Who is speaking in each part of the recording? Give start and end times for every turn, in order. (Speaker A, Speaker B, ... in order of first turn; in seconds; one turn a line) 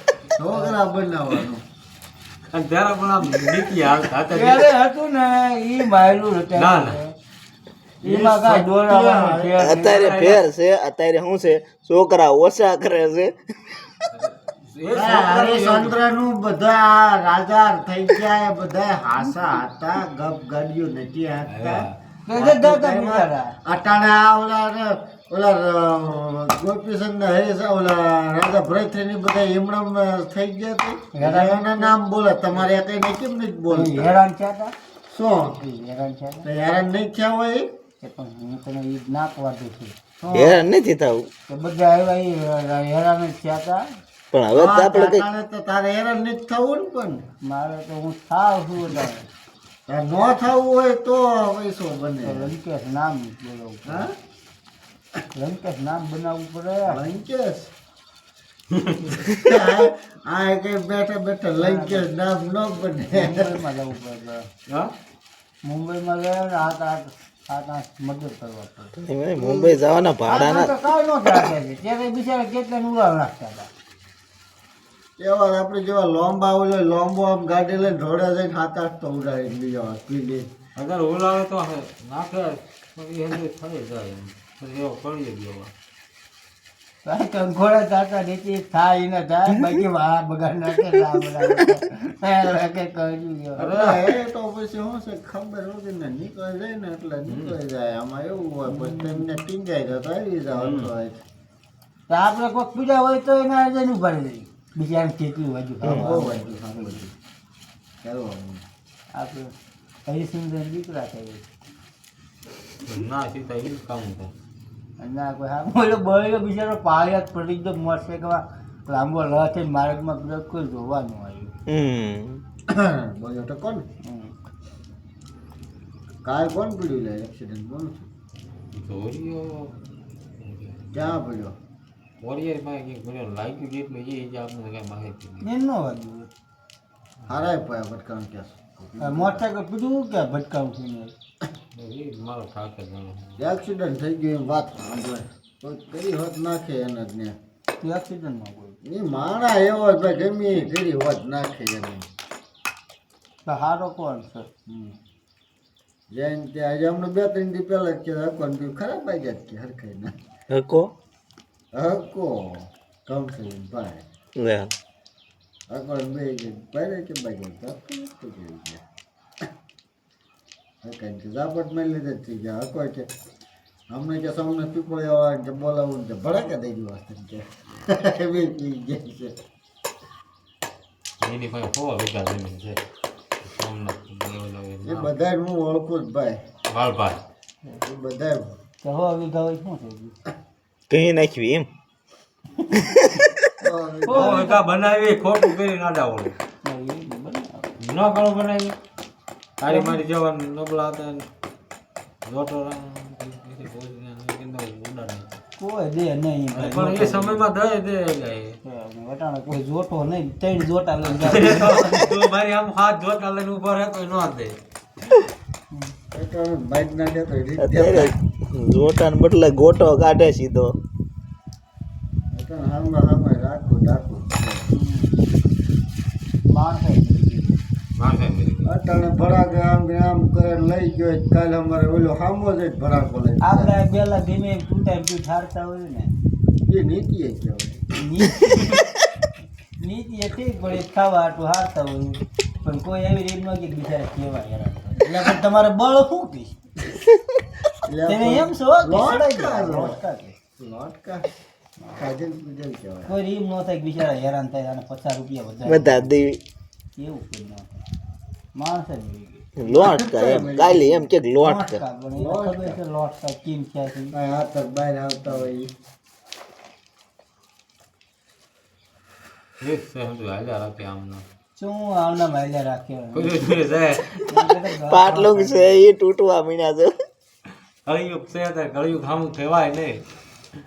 Speaker A: 0.4-1.6
Speaker B: 0.5-0.8
Speaker C: 2.5-4.7
Speaker B: 4.3-7.1
Speaker C: 6.5-7.0
Speaker B: 8.0-10.3
Speaker A: 8.0-9.6
Speaker D: 9.6-14.0
Speaker C: 14.1-16.0
Speaker A: 14.9-34.1
Speaker C: 21.4-21.9
Speaker B: 22.2-23.5
Speaker B: 31.1-31.9
Speaker B: 33.7-34.7
Speaker A: 35.1-35.6
Speaker B: 35.6-36.5
Speaker A: 36.4-37.7
Speaker B: 38.0-40.6
Speaker D: 40.3-41.3
Speaker B: 41.5-43.8
Speaker D: 44.3-45.2
Speaker A: 44.5-47.2
Speaker B: 47.4-49.3
Speaker A: 49.9-52.5
Speaker B: 52.2-54.1
Speaker B: 55.3-57.0
Speaker A: 56.9-57.7
Speaker C: 58.7-59.2
Speaker A: 59.3-63.6
Speaker B: 61.6-62.0
Speaker B: 63.1-64.5
Speaker B: 65.6-68.9
Speaker D: 69.0-70.7
Speaker B: 70.2-73.7
Speaker A: 75.2-80.5
Speaker C: 80.8-85.7
Speaker B: 87.0-94.0
Speaker A: 93.6-101.2
Speaker C: 97.3-97.5
Speaker B: 98.7-99.2
Speaker C: 100.5-100.9
Speaker B: 102.1-107.0
Speaker A: 105.8-107.1
Speaker A: 108.0-108.6
Speaker B: 109.1-109.5
Speaker B: 110.0-111.5
Speaker C: 112.8-114.3
Speaker B: 115.0-121.5
Speaker D: 121.7-122.4
Speaker A: 122.7-123.8
Speaker B: 124.0-124.3
Speaker A: 126.2-128.1
Speaker C: 128.7-129.7
Speaker C: 130.4-131.2
Speaker A: 130.9-131.6
Speaker C: 132.2-135.5
Speaker B: 135.4-136.3
Speaker C: 137.2-137.5
Speaker A: 137.3-139.4
Speaker B: 139.0-141.1
Speaker C: 141.7-143.4
Speaker A: 143.4-147.3
Speaker B: 147.8-148.8
Speaker A: 148.8-152.1
Speaker B: 153.4-154.5
Speaker A: 154.7-154.9
Speaker A: 156.1-160.1
Speaker D: 160.5-160.9
Speaker A: 161.7-164.0
Speaker D: 164.3-164.7
Speaker A: 165.7-168.8
Speaker A: 170.8-173.1
Speaker A: 173.9-179.3
Speaker C: 181.2-182.8
Speaker C: 183.4-185.1
Speaker A: 184.8-186.4
Speaker C: 186.7-187.2
Speaker A: 187.8-188.5
Speaker B: 188.8-190.2
Speaker D: 190.9-191.7
Speaker A: 193.6-194.5
Speaker B: 194.0-194.6
Speaker C: 194.1-196.3
Speaker B: 196.6-197.7
Speaker C: 197.8-198.8
Speaker C: 199.6-201.3
Speaker B: 199.7-200.0
Speaker C: 202.2-205.4
Speaker B: 205.6-207.4
Speaker C: 206.5-208.6
Speaker B: 208.6-212.0
Speaker C: 211.0-214.6
Speaker A: 216.1-218.1
Speaker D: 217.6-220.7
Speaker A: 222.3-224.7
Speaker B: 224.7-225.3
Speaker B: 226.5-227.6
Speaker C: 227.9-228.7
Speaker A: 228.7-233.7
Speaker B: 233.4-236.1
Speaker A: 236.7-237.8
Speaker B: 237.9-238.8
Speaker B: 239.8-246.6
Speaker A: 247.8-250.0
Speaker B: 248.1-250.3
Speaker A: 250.6-251.3
Speaker A: 251.9-253.1
Speaker B: 253.1-256.1
Speaker D: 255.6-256.4
Speaker B: 256.9-257.8
Speaker B: 258.5-259.4
Speaker D: 259.6-261.8
Speaker A: 259.6-261.1
Speaker B: 261.4-264.1
Speaker A: 262.1-262.8
Speaker A: 264.1-265.7
Speaker C: 269.6-271.2
Speaker B: 271.6-273.4
Speaker C: 273.1-274.2
Speaker B: 274.3-275.8
Speaker D: 274.9-276.9
Speaker C: 277.9-280.0